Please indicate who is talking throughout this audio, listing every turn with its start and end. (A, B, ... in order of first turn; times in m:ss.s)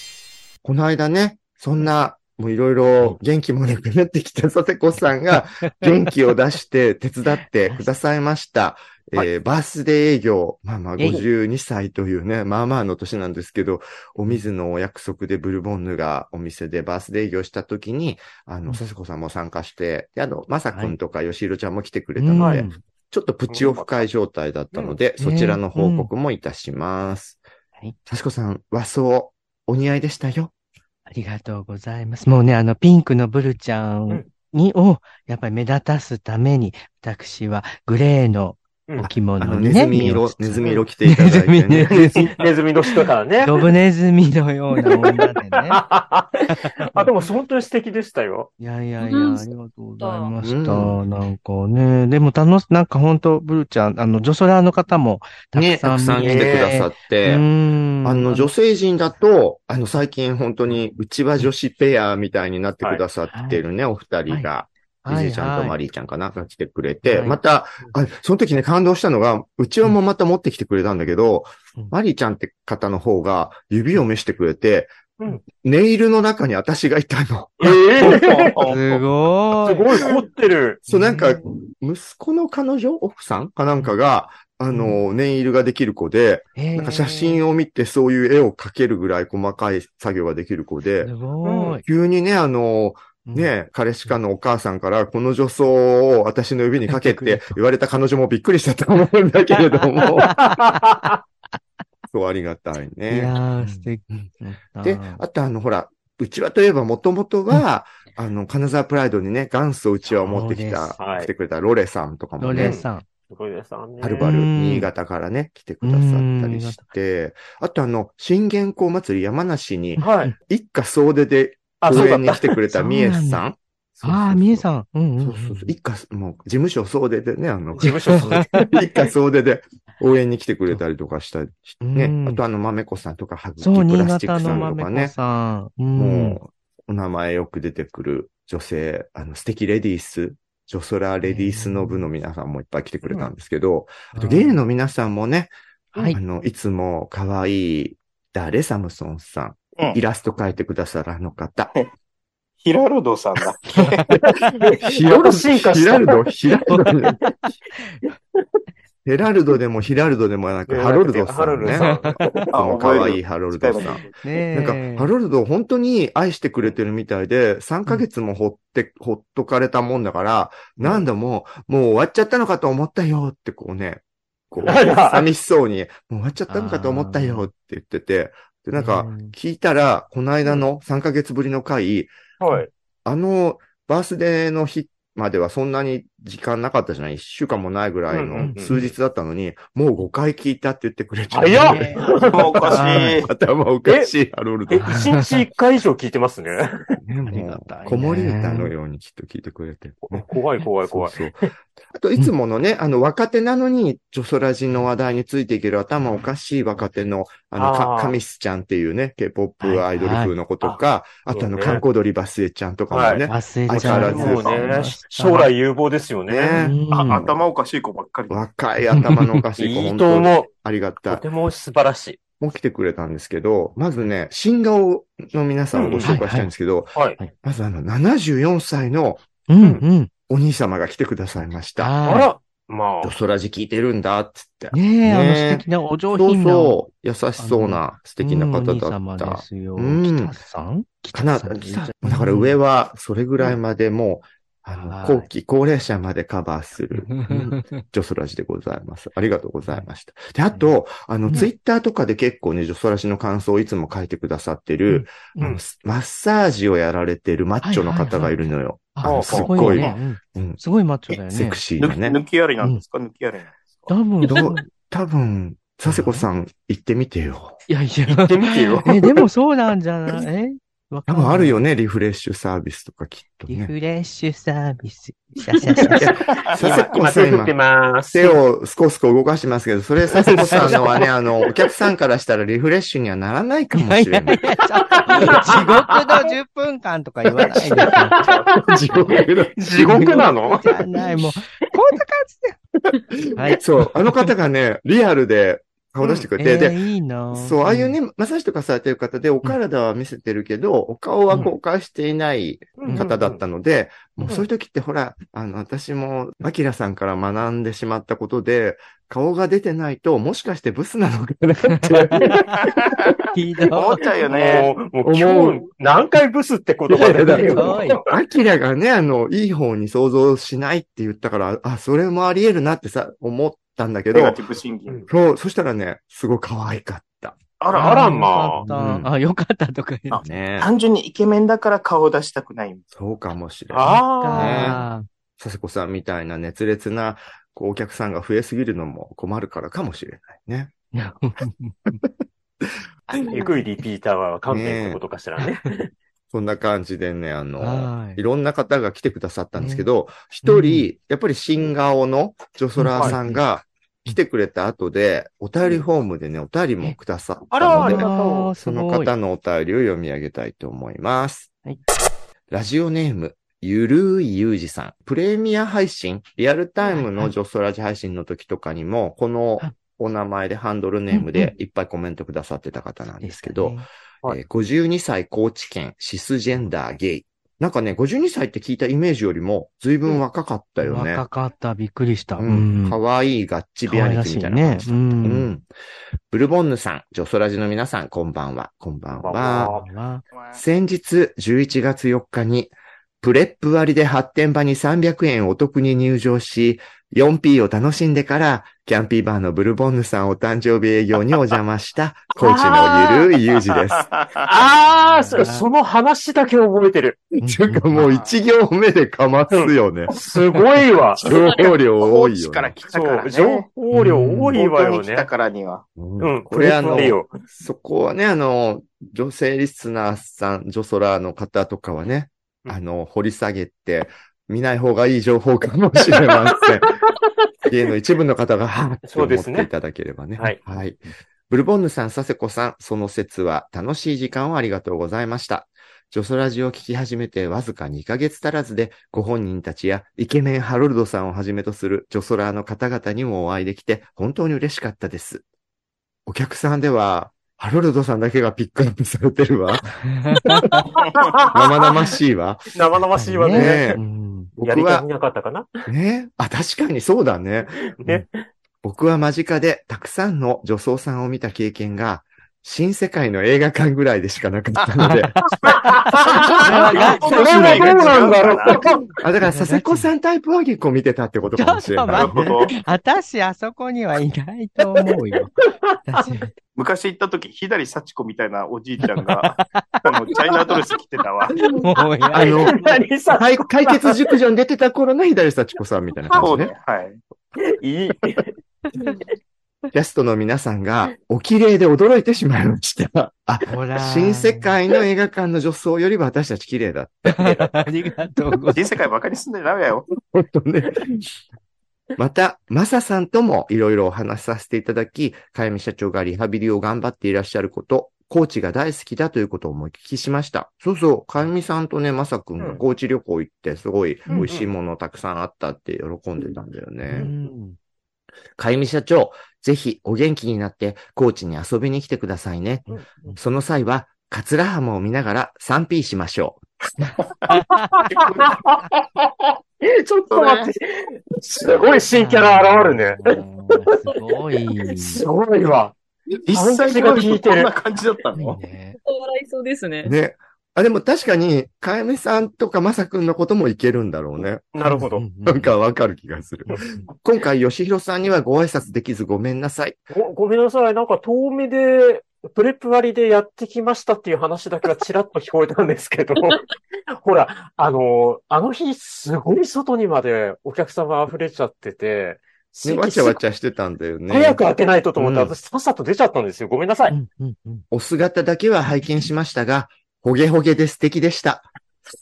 0:00.6-0:27.4 A
0:05.6-0:05.9 B
0:07.6-0:07.9 B
0:11.0-0:11.2 B
0:20.7-0:21.0 B
0:22.2-0:22.8 B
0:22.4-0:22.7 C
0:23.5-0:24.1 C
0:24.7-0:25.0 C
0:25.2-0:26.1 B
0:28.1-0:30.5 A
0:31.1-0:42.5 B
0:39.0-0:42.0 A
0:41.9-0:43.7 C
0:43.4-0:45.8 B
0:44.9-0:48.5 C
0:46.5-0:47.3 B
0:48.6-0:58.5 B
0:49.0-0:50.3 D
0:50.4-0:51.0 A
0:55.5-0:57.5 A
0:56.2-0:56.8 C
0:58.0-1:18.2 A
1:03.3-1:03.6 B
1:05.0-1:05.8 B
1:07.0-1:07.4 B
1:17.6-1:18.6 C
1:18.0-1:19.0 E
1:18.7-1:19.9 B
1:19.6-1:20.8 C
1:20.9-1:31.1 A
1:20.9-1:21.5 B
1:24.7-1:25.0 B
1:26.6-1:27.4 B
1:31.0-1:31.8 B
1:31.4-1:31.8 C
1:31.8-1:40.4 A
1:33.3-1:33.5 B
1:36.9-1:37.6 B
1:40.2-1:40.8 B
1:40.4-1:41.2 C
1:42.1-1:52.8 A
1:43.1-1:45.2 B
1:50.1-1:51.0 B
1:51.0-1:51.3 C
1:52.4-1:53.1 B
1:52.6-1:54.3 C
1:54.0-2:04.7 A
1:54.2-1:54.9 B
1:55.8-1:56.8 B
2:00.0-2:00.3 C
2:01.8-2:02.6 C
2:02.7-2:03.4 B
2:04.0-2:05.7 B
2:05.2-2:15.2 A
2:07.7-2:08.8 C
2:07.8-2:08.7 B
2:11.8-2:12.4 B
2:13.6-2:16.4 B
2:16.0-2:25.5 A
2:21.2-2:22.1 B
2:24.1-2:24.6 B
2:26.0-2:26.2 B
2:26.1-2:31.7 A
2:32.6-2:34.1 E
2:33.7-2:34.6 B
2:34.6-2:36.3 C
2:34.8-2:37.2 A
2:37.9-2:38.1 B
2:39.0-3:02.1 A
2:40.7-2:42.5 C
2:41.7-2:42.4 B
2:42.5-2:44.2 E
2:44.2-2:45.1 B
2:54.6-2:55.3 C
2:56.5-2:57.5 B
2:58.8-2:59.3 B
3:02.4-3:02.7 C
3:03.0-3:15.2 A
3:08.1-3:08.9 C
3:08.4-3:08.9 B
3:11.3-3:12.6 C
3:11.5-3:13.3 B
3:12.3-3:13.3 E
3:13.9-3:14.1 C
3:14.7-3:17.0 C
3:14.8-3:15.4 B
3:17.0-3:20.3 A
3:17.3-3:18.7 B
3:20.0-3:21.3 C
3:20.9-3:34.7 A
3:27.6-3:28.2 C
3:29.6-3:30.3 B
3:30.6-3:31.8 C
3:32.9-3:36.6 C
3:33.3-3:35.5 B
3:36.3-3:37.4 A
3:36.6-3:37.2 B
3:36.9-3:38.4 E
3:38.3-3:41.2 A
3:38.9-3:39.4 B
3:39.6-3:40.5 C
3:41.1-3:42.2 C
3:42.4-3:49.2 A
3:45.7-3:46.2 C
3:46.0-3:46.5 B
3:49.5-3:50.1 B
3:50.3-3:52.0 A
3:51.8-3:52.3 B
3:52.0-3:53.2 C
3:53.0-4:00.4 A
3:54.7-3:56.8 B
3:57.4-4:02.6 B
4:01.1-4:20.6 A
4:04.8-4:05.3 B
4:07.0-4:07.8 B
4:14.9-4:15.6 B
4:17.6-4:21.6 B
4:19.0-4:19.9 C
4:19.3-4:19.9 E
4:21.3-4:22.2 A
4:21.8-4:23.9 E
4:23.9-4:24.7 B
4:24.3-4:27.6 A
4:25.9-4:26.3 B
4:27.7-4:31.6 B
4:28.1-4:29.1 C
4:31.1-4:33.7 A
4:33.5-4:36.2 B
4:35.7-4:36.0 C
4:35.9-4:37.6 A
4:36.4-4:36.8 E
4:36.5-4:38.4 C
4:38.1-4:44.4 A
4:40.2-4:41.1 C
4:40.4-4:40.9 B
4:43.7-4:48.2 B
4:45.1-4:46.0 C
4:45.2-4:45.6 A
4:47.6-4:50.3 A
4:47.8-4:50.7 C
4:48.9-4:52.6 B
4:52.8-4:56.8 A
4:53.4-4:54.3 B
4:56.0-4:56.3 C
4:56.4-4:58.0 B
4:57.3-5:12.8 A
5:02.8-5:03.4 C
5:11.7-5:12.7 B
5:12.6-5:13.2 E
5:13.3-5:14.0 B
5:13.7-5:14.8 E
5:14.2-5:18.2 C
5:15.0-5:15.6 A
5:16.9-5:24.4 A
5:17.3-5:18.0 B
5:24.1-5:25.0 E
5:25.1-5:27.4 A
5:27.6-5:28.1 E
5:27.7-5:30.2 B
5:27.7-5:28.6 C
5:28.6-5:29.1 A
5:30.1-5:32.9 E
5:30.2-5:30.7 A
5:32.9-5:34.8 A
5:33.7-5:34.8 C
5:33.8-5:35.1 B
5:35.4-5:40.7 A
5:40.9-5:42.0 B
5:42.6-5:43.5 A
5:43.1-5:43.4 B
5:43.3-5:45.9 C
5:44.5-5:45.0 A
5:46.3-6:01.5 A
5:47.6-5:48.2 B
5:49.6-5:49.9 B
5:50.4-5:50.9 B
5:52.8-5:53.4 B
5:57.5-5:58.5 C
5:57.8-5:59.1 B
6:02.5-6:21.2 A
6:06.9-6:07.3 B
6:11.1-6:11.5 B
6:13.2-6:13.9 B
6:20.8-6:23.0 B
6:22.4-6:25.7 A
6:23.9-6:25.5 B
6:26.3-6:29.8 A
6:29.2-6:29.9 C
6:29.7-6:30.2 B
6:30.3-6:30.6 E
6:30.5-6:44.1 A
6:42.4-6:43.4 C
6:43.9-6:44.5 E
6:44.4-6:47.2 C
6:44.8-6:45.6 B
6:47.4-6:50.1 A
6:47.4-6:48.0 B
6:48.0-6:48.3 E
6:49.5-6:51.3 C
6:51.2-6:52.8 A
6:51.2-6:53.7 E
6:52.9-6:55.3 C
6:53.9-6:54.6 B
6:54.6-6:55.8 E
6:56.0-7:06.9 A
6:56.2-6:57.3 C
7:06.1-7:06.8 C
7:07.7-7:25.4 A
7:09.0-7:09.7 C
7:26.3-7:29.9 A
7:30.0-7:30.8 B
7:30.6-7:30.9 A
7:30.9-7:32.2 C
7:31.5-7:34.0 A
7:32.7-7:34.0 C
7:33.2-7:34.5 B
7:34.6-7:35.1 A
7:34.6-7:35.7 C
7:35.9-7:38.3 A
7:38.0-7:38.3 C
7:38.8-7:45.4 A
7:45.6-7:48.8 E
7:45.6-7:49.0 C
7:46.6-7:47.9 B
7:47.0-7:47.8 A
7:49.1-7:52.6 A
7:49.4-7:50.1 B
7:51.5-7:55.6 B
7:52.1-7:52.8 E
7:56.1-7:56.5 B
7:56.8-8:01.6 E
7:59.0-8:00.0 B
8:01.8-8:02.6 B
8:02.3-8:06.7 A
8:02.3-8:04.4 C
8:06.4-8:07.2 E
8:07.8-8:09.2 C
8:09.9-8:17.9 A
8:13.7-8:14.7 B
8:17.3-8:18.8 B
8:18.8-8:20.1 E
8:20.1-8:21.3 A
8:22.2-8:37.3 A
8:34.3-8:34.7 C
8:37.1-8:37.8 B
8:38.6-8:46.7 A
8:42.9-8:43.4 C
8:42.9-8:43.4 B
8:47.0-8:48.1 B
8:47.9-8:48.9 C
8:48.1-8:48.6 E
8:49.8-8:53.4 C
8:50.3-8:50.7 E
8:52.1-8:55.2 B
8:54.8-8:56.0 C
8:56.5-8:58.6 E
8:56.5-8:57.3 A
8:56.5-8:57.7 C
8:58.4-8:59.0 B
8:59.0-9:00.2 D
9:00.0-9:04.8 A
9:04.8-9:05.2 C
9:04.8-9:05.8 B
9:05.4-9:10.0 A
9:10.1-9:23.4 C
9:22.8-9:24.6 A
9:24.3-9:27.2 C
9:25.2-9:25.6 A
9:27.1-9:27.8 B
9:27.9-9:31.7 A